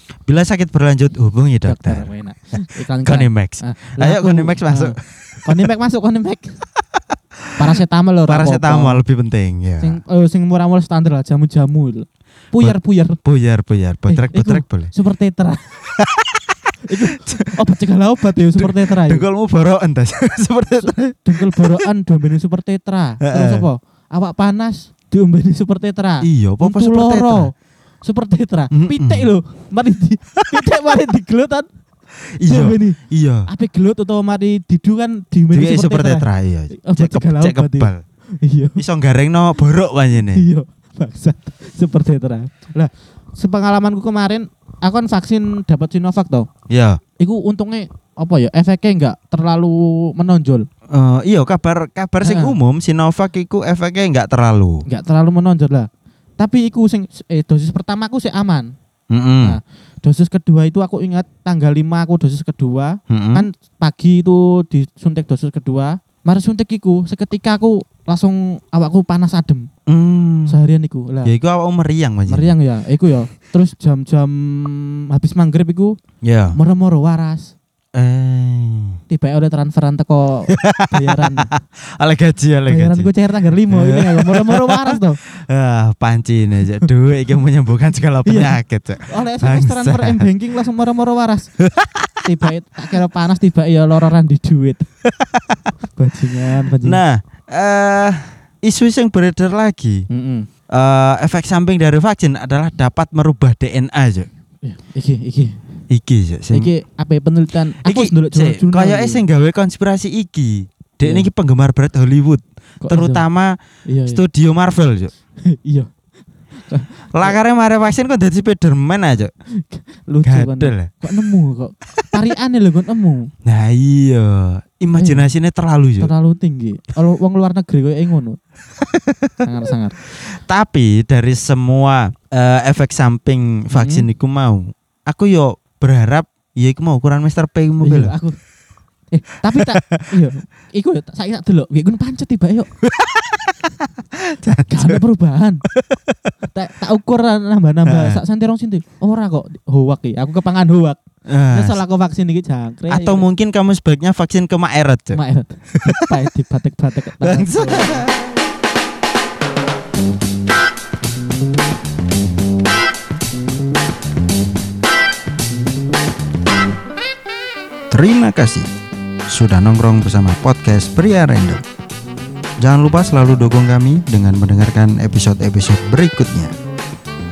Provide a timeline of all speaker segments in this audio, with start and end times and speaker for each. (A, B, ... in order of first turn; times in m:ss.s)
0:00.3-0:02.1 A
0:01.6-0:06.6 B
0:03.0-0:05.5 A
0:07.6-0:09.0 B
0:08.3-0:10.0 A
0:09.8-0:13.2 B
0:12.6-0:14.9 A
0:14.1-0:15.6 B
0:16.0-0:16.5 A
0:16.9-0:19.2 B
0:17.2-0:17.5 A
0:18.5-0:21.7 A
0:20.8-0:31.7 B
0:23.2-0:23.7 A
0:26.2-0:27.5 A
0:28.7-0:29.3 A
0:32.4-0:33.5 A
0:32.4-0:38.8 B
0:35.5-0:38.0 A
0:38.8-0:40.4 A
0:40.3-0:46.5 B
0:46.7-0:47.0 A
0:47.2-0:50.7 B
0:50.9-0:54.8 A
0:52.2-0:52.6 B
0:54.9-0:55.9 B
0:56.4-0:58.7 B
0:59.1-0:59.6 A
0:59.4-1:09.7 B
1:03.1-1:03.5 A
1:09.9-1:10.6 A
1:10.5-1:11.3 B
1:11.2-1:12.5 A
1:12.3-1:16.0 B
1:16.2-1:16.6 A
1:16.6-1:17.5 B
1:18.0-1:19.0 A
1:19.1-1:21.5 B
1:20.5-1:23.1 A
1:22.7-1:25.2 B
1:23.7-1:30.2 A
1:28.2-1:31.6 B
1:31.8-1:32.2 A
1:32.2-1:34.9 B
1:35.2-1:35.6 A
1:36.0-1:37.0 B
1:36.8-1:40.1 A
1:40.1-1:40.5 B
1:40.7-1:44.3 A
1:44.6-1:45.6 B
1:45.9-1:46.7 A
1:46.5-1:49.2 B
1:47.8-1:55.1 A
1:52.8-1:53.2 B
1:53.8-1:54.2 B
1:55.4-1:55.9 B
1:56.6-1:57.4 B
1:57.1-1:59.3 A
1:59.5-2:03.3 B
2:00.2-2:00.9 A
2:03.5-2:06.1 A
2:05.0-2:05.3 B
2:06.0-2:08.4 B
2:09.0-2:09.3 A
2:09.4-2:10.0 B
2:10.2-2:18.2 A
2:13.7-2:14.1 B
2:17.8-2:18.4 B
2:19.1-2:22.7 B
2:22.9-2:25.0 A
2:24.6-2:25.6 B
2:25.7-2:26.3 A
2:26.5-2:31.0 B
2:27.9-2:28.2 A
2:31.3-2:31.8 A
2:31.5-2:33.3 B
2:32.9-2:35.2 A
2:35.1-2:38.1 B
2:37.2-2:38.2 A
2:47.9-2:48.7 A
2:49.3-2:51.6 A
2:52.6-2:56.5 A